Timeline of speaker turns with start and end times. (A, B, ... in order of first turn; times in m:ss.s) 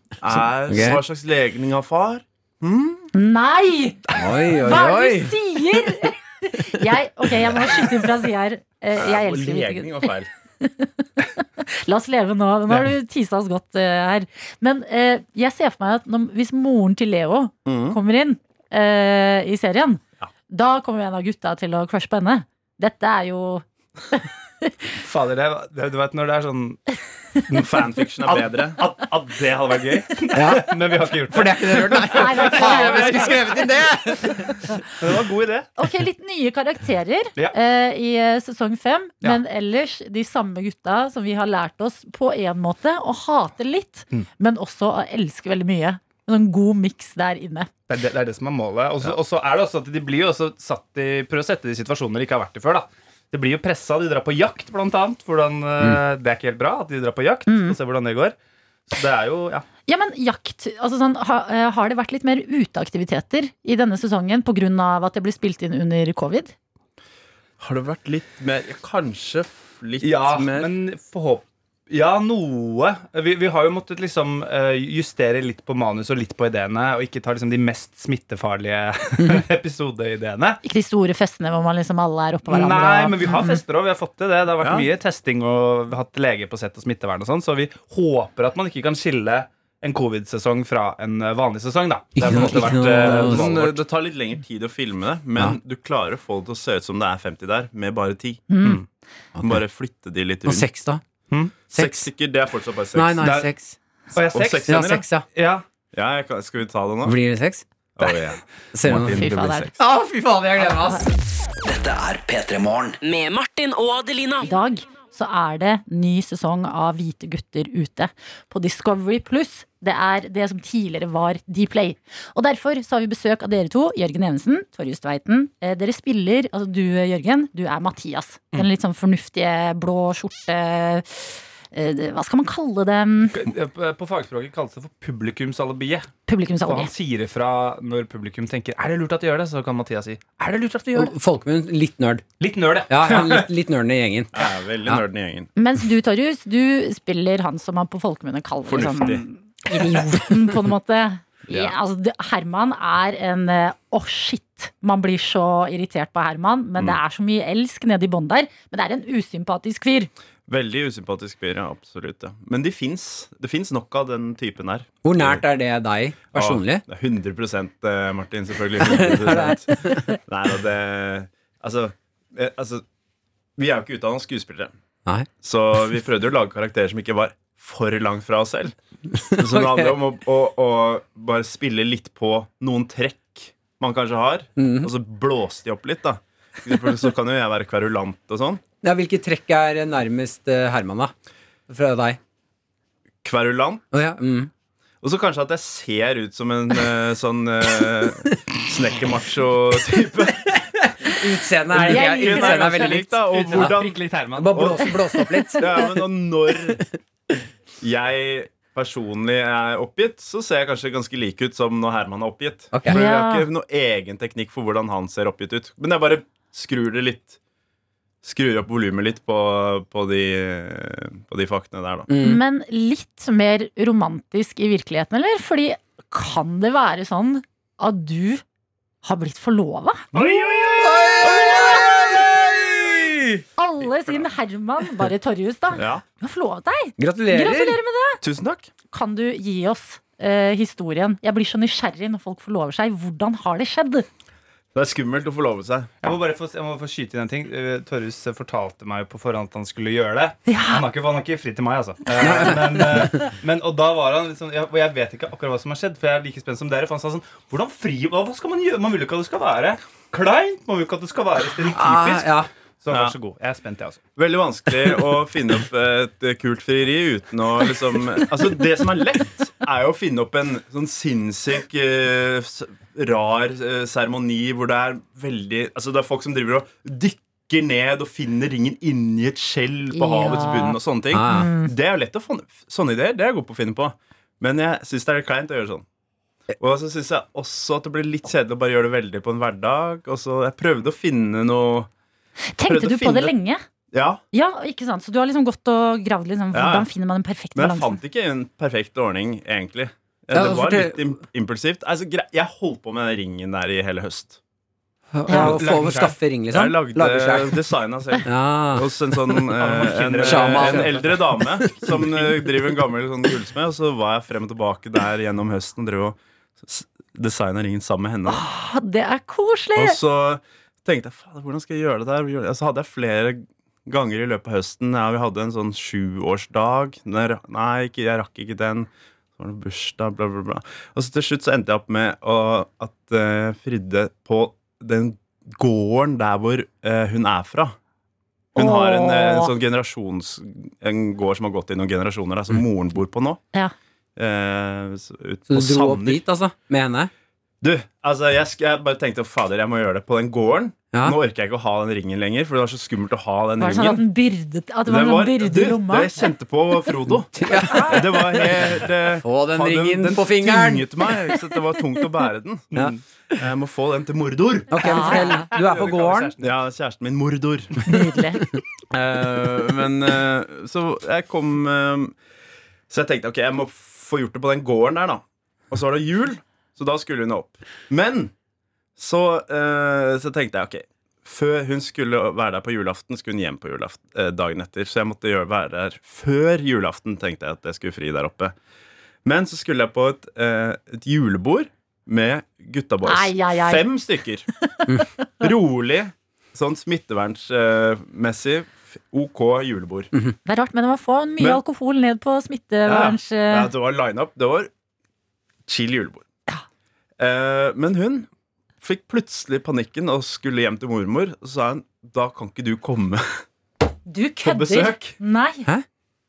0:00.2-0:03.1 A
0:00.7-0:01.0 B
0:03.1-0:24.7 C
0:04.1-0:05.4 B
0:08.9-0:10.3 A
0:17.6-0:18.0 A
0:25.0-0:26.8 D
0:27.5-0:33.6 D
0:27.6-0:29.0 A
0:30.3-0:30.8 B
0:31.3-0:34.5 B
0:32.1-0:33.7 C
0:35.0-0:35.7 D
0:35.8-0:47.7 C
0:47.9-0:58.4 D
0:57.5-0:57.8 C
0:58.9-0:59.6 D
0:59.9-1:06.6 C
1:07.6-1:10.7 A
1:10.0-1:20.6 D
1:20.6-1:23.6 C
1:22.5-1:33.8 D
1:24.6-1:24.9 A
1:32.2-1:33.6 B
1:32.2-1:38.5 A
1:38.5-1:38.8 C
1:39.4-1:39.6 B
1:39.4-1:40.7 A
1:40.5-1:41.0 B
1:41.3-1:41.6 D
1:41.7-1:43.4 A
1:41.7-1:42.1 B
1:43.0-1:43.8 B
1:43.2-1:43.5 D
1:44.1-1:45.6 D
1:44.3-1:45.1 A
1:44.7-1:45.2 B
1:45.9-1:47.2 A
1:47.0-1:48.2 B
1:48.0-1:49.8 A
1:48.7-1:49.2 B
1:49.2-1:49.7 C
1:49.8-1:51.1 B
1:51.6-1:54.5 E
1:54.4-2:13.4 C
2:13.3-2:21.1 D
2:16.3-2:16.9 C
2:21.0-2:22.3 B
2:22.4-2:23.3 D
2:22.9-2:25.0 B
2:24.3-2:25.5 A
2:25.6-2:40.1 C
2:28.7-2:29.2 A
2:31.5-2:31.8 A
2:40.5-2:45.4 A
2:45.0-2:46.8 B
2:46.3-2:52.8 A
2:48.8-2:50.2 B
2:53.6-2:54.7 A
2:55.4-2:58.8 A
2:59.2-3:00.0 B
2:59.3-3:08.6 A
3:04.6-3:04.9 B
3:08.8-3:11.1 B
3:11.7-3:12.2 B
3:13.2-3:13.9 A
3:13.9-3:14.5 B
3:15.0-3:20.6 A
3:20.6-3:23.8 B
3:21.7-3:24.9 A
3:21.8-3:25.0 D
3:21.9-3:22.3 C
3:24.4-3:26.0 B
3:25.6-3:26.8 A
3:27.8-3:37.4 A
3:32.7-3:33.0 B
3:32.9-3:33.5 C
3:38.2-3:42.1 A
3:42.1-3:42.4 B
3:42.2-3:48.4 C
3:49.0-3:50.1 C
3:50.2-3:51.0 A
3:50.8-3:53.4 B
3:51.2-3:52.2 C
3:53.6-3:58.2 C
3:55.7-3:56.0 A
3:57.0-3:57.8 B
3:58.2-3:58.7 A
3:58.9-4:04.1 C
4:04.7-4:05.9 A
4:06.0-4:24.0 D
4:10.5-4:10.8 C
4:12.2-4:13.3 B
4:21.7-4:22.5 B
4:22.9-4:23.2 A
4:24.2-4:45.8 A
4:39.9-4:40.8 C
4:41.1-4:41.5 B
4:41.3-4:41.7 C
4:46.6-4:51.9 A
4:52.6-4:53.6 C
4:52.7-4:53.4 A
4:53.9-4:54.2 A
4:54.3-4:58.0 C
4:56.5-4:56.9 A
4:57.5-5:04.4 A
5:00.3-5:01.2 B
5:05.2-5:07.6 B
5:05.3-5:06.2 D
5:05.3-5:05.5 C
5:06.5-5:18.4 A
5:08.2-5:09.4 B
5:09.6-5:11.2 D
5:10.2-5:11.0 B
5:11.6-5:12.3 B
5:18.3-5:20.0 C
5:19.8-5:37.8 A
5:38.5-5:43.4 A
5:38.6-5:39.5 C
5:44.2-5:46.2 A
5:45.5-5:47.1 B
5:47.6-5:54.1 A
5:50.9-5:51.2 B
5:53.6-5:56.1 C
5:54.9-6:02.8 A
5:57.4-5:58.5 B
5:57.5-5:58.0 D
5:59.2-6:01.2 B
6:02.7-6:03.0 D
6:03.4-6:07.8 A
6:04.7-6:06.3 B
6:04.8-6:05.4 C
6:05.0-6:06.4 D
6:07.9-6:08.4 C
6:08.9-6:12.2 A
6:12.9-6:18.3 A
6:19.0-6:28.6 A
6:29.2-6:34.5 A
6:33.0-6:33.9 C
6:35.4-6:40.1 A
6:40.5-6:43.7 C
6:42.9-6:44.7 A
6:45.7-6:46.2 A
6:47.2-6:48.3 A
6:48.8-6:53.4 A
6:54.1-6:55.7 C
6:54.4-6:55.2 A